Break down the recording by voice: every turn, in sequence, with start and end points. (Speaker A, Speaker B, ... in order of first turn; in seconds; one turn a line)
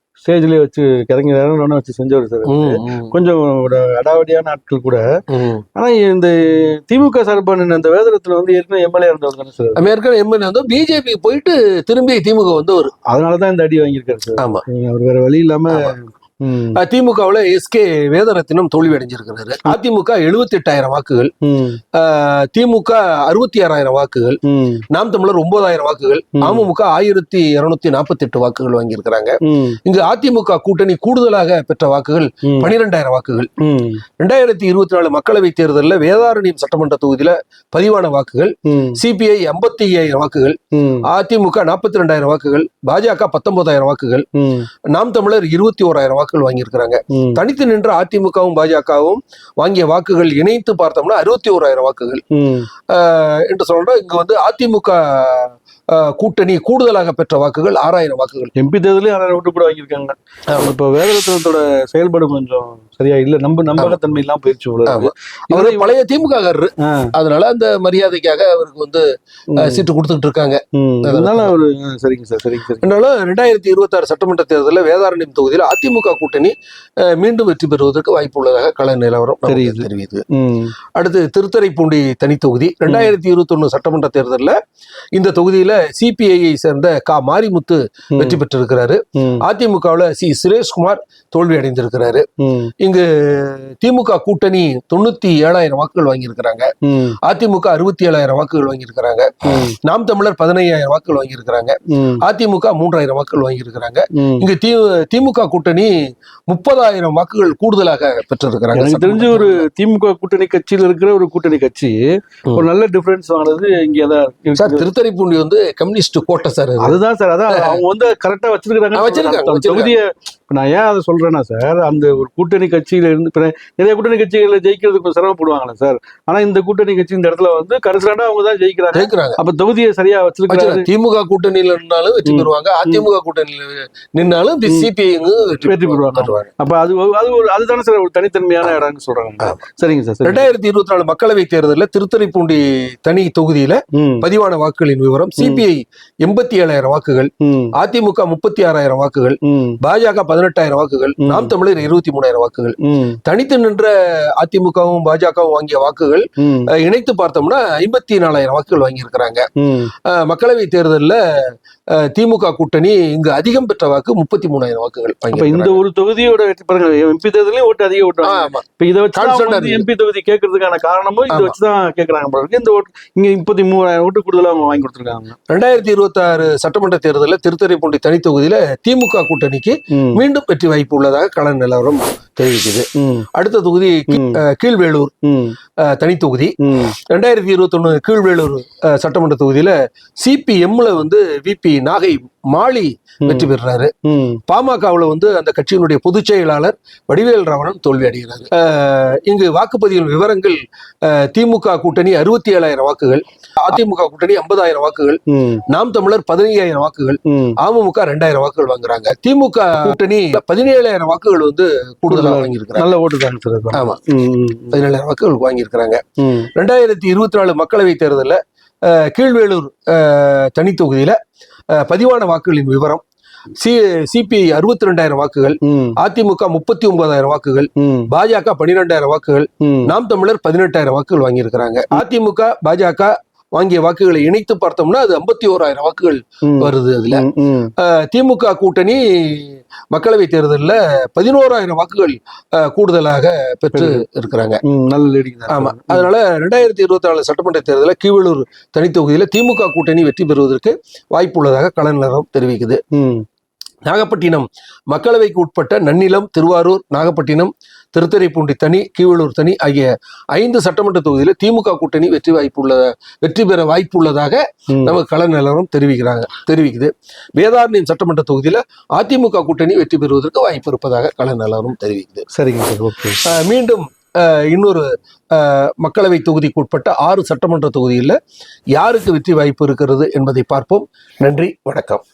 Speaker A: 0.2-5.0
Speaker B: 2.5-3.1
Speaker B: 5.3-5.6
Speaker A: 5.8-9.8
Speaker B: 9.8-12.9
Speaker A: 13.1-16.8
Speaker B: 14.4-14.6
Speaker B: 16.8-21.3
Speaker A: 21.4-21.8
Speaker B: 21.9-24.4
Speaker A: 24.5-24.8
Speaker B: 24.9-33.5
Speaker A: 26.4-26.7
Speaker A: 29.4-29.8
Speaker A: 33.6-34.0
Speaker B: 34.2-44.2
Speaker A: 38.7-39.0
Speaker A: 40.7-41.1
Speaker A: 44.4-44.7
Speaker B: 44.9-52.2
Speaker A: 47.1-47.4
Speaker A: 52.3-52.7
Speaker B: 52.9-58.5
Speaker A: 58.5-65.9
Speaker B: 64.8-69.0
Speaker A: 66.8-67.1
Speaker A: 69.5-69.8
Speaker B: 69.6-71.5
Speaker A: 70.8-72.8
Speaker B: 72.8-80.2
Speaker A: 79.5-80.7
Speaker B: 81.0-84.5
Speaker A: 82.9-83.1
Speaker B: 85.1-92.2
Speaker A: 88.1-88.4
Speaker A: 89.2-89.4
Speaker A: 92.4-92.7
Speaker B: 92.8-96.7
Speaker A: 96.8-97.2
Speaker B: 97.2-105.9
Speaker A: 99.5-99.7
Speaker A: 101.9-102.2
Speaker A: 104.2-104.5
Speaker B: 106.5-109.6
Speaker A: 108.7-112.0
Speaker A: 112.5-114.9
Speaker B: 114.5-117.0
Speaker A: 116.8-130.9
Speaker B: 117.5-117.8
Speaker B: 118.9-119.9
Speaker B: 128.9-129.4
Speaker B: 130.5-136.5
Speaker A: 132.2-133.0
Speaker A: 135.7-140.5
Speaker B: 140.2-156.2
Speaker A: 143.9-144.3
Speaker A: 147.4-147.7
Speaker A: 149.5-149.8
Speaker A: 151.2-151.5
Speaker A: 152.8-153.2
Speaker A: 156.4-156.7
Speaker B: 156.8-159.5
Speaker A: 159.6-159.9
Speaker B: 160.0-165.8
Speaker A: 165.3-175.4
Speaker B: 168.2-169.8
Speaker B: 171.3-171.6
Speaker B: 175.5-185.1
Speaker A: 179.9-180.2
Speaker A: 183.0-183.3
Speaker A: 184.1-184.4
Speaker A: 185.2-185.6
Speaker B: 185.8-186.5
Speaker A: 186.6-186.9
Speaker B: 187.1-193.9
Speaker A: 193.2-193.5
Speaker A: 194.1-194.4
Speaker B: 194.5-212.9
Speaker A: 205.3-205.6
Speaker A: 207.3-207.6
Speaker A: 212.1-214.8
Speaker B: 213.7-214.0
Speaker B: 214.7-216.0
Speaker A: 216.2-216.5
Speaker B: 216.5-221.2
Speaker B: 221.8-223.0
Speaker B: 223.6-237.2
Speaker A: 225.6-225.9
Speaker A: 227.8-228.1
Speaker A: 229.6-229.9
Speaker A: 236.4-237.7
Speaker B: 237.8-244.6
Speaker A: 243.7-244.0
Speaker A: 244.6-246.1
Speaker B: 245.5-252.8
Speaker A: 252.9-253.2
Speaker B: 253.8-272.3
Speaker A: 264.7-264.9
Speaker A: 272.3-273.2
Speaker B: 273.3-278.2
Speaker B: 278.7-282.0